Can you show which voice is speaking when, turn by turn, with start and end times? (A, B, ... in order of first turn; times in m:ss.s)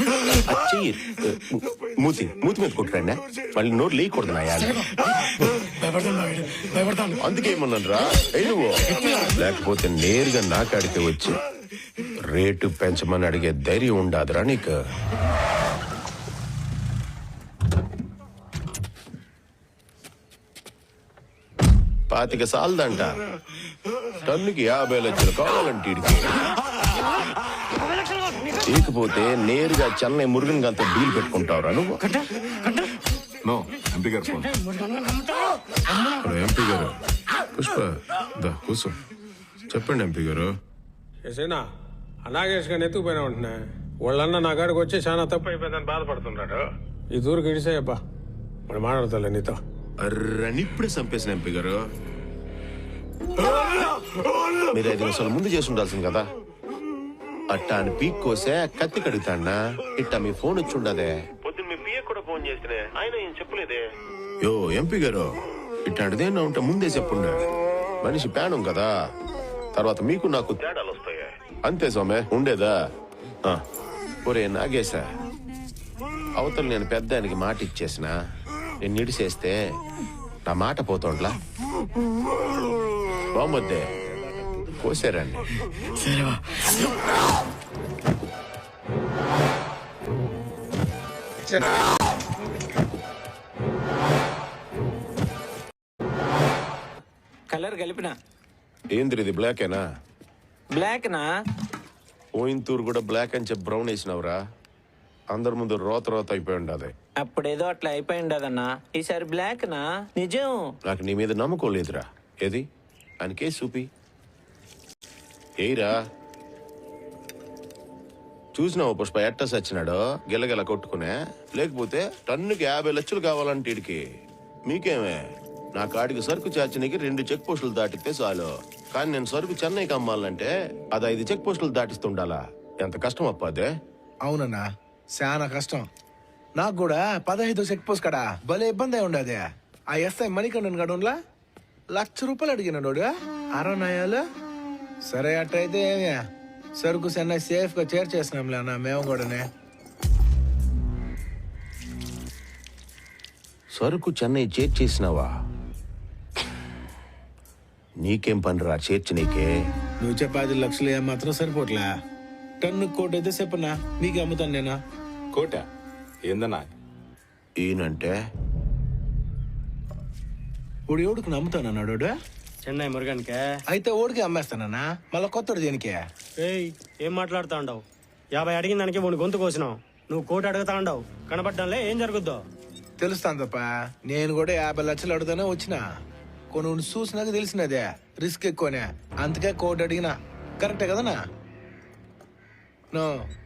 0:00.2-0:04.9 A
0:05.6-0:07.1 B
0:07.2-0:11.4 A
0:12.3-0:14.8 A
0:22.1-0:23.1 A
0:24.2-0:26.4 A
0:28.6-0:32.0 A
0:33.4-0:34.5 C
0:34.6-0:35.2 B
0:36.1-0:37.0 A
0:37.5-0:39.0 A
0:39.7-0:40.5 A
0:41.3-0:41.6 D
0:42.3-0:43.5 D
0:44.0-0:46.6 D
0:47.1-0:48.0 D
0:48.7-0:49.5 D
0:50.0-0:51.8 A
0:54.7-0:56.2 A
0:57.5-1:03.8 A
1:04.4-1:05.3 A
1:05.8-1:07.5 A
1:08.0-1:08.9 A
1:09.7-1:12.7 A
1:14.2-1:15.0 A
1:16.4-1:18.1 A
1:18.8-1:19.6 A
1:20.4-1:21.4 A
1:23.3-1:23.9 A
1:24.7-1:25.5 A
1:37.5-1:38.1 E
1:38.9-1:39.8 A
1:40.7-1:41.3 E
1:42.4-1:44.4 A
1:45.3-1:46.9 A
1:47.2-1:50.7 E
1:50.8-1:52.6 A
1:53.2-1:53.8 A
1:55.6-1:55.9 A
1:58.5-2:04.0 A
2:04.6-2:05.2 A
2:05.7-2:13.7 A
2:14.2-2:14.6 F
2:15.2-2:15.8 F
2:16.6-2:19.4 F
2:19.9-2:21.1 F
2:21.9-2:24.2 F
2:25.1-2:26.2 F
2:26.8-2:29.4 F
2:33.7-2:35.3 A
2:38.0-2:39.5 A
2:40.0-2:41.8 F
2:42.6-2:44.8 F
2:45.3-2:45.7 C
2:46.2-2:46.7 C
2:47.6-2:48.1 A
2:50.9-2:52.1 F
2:52.6-2:53.4 B
2:53.7-2:56.0 F
2:56.4-2:57.8 B
2:58.3-3:02.4 B
3:03.0-3:05.8 F
3:06.5-3:11.2 F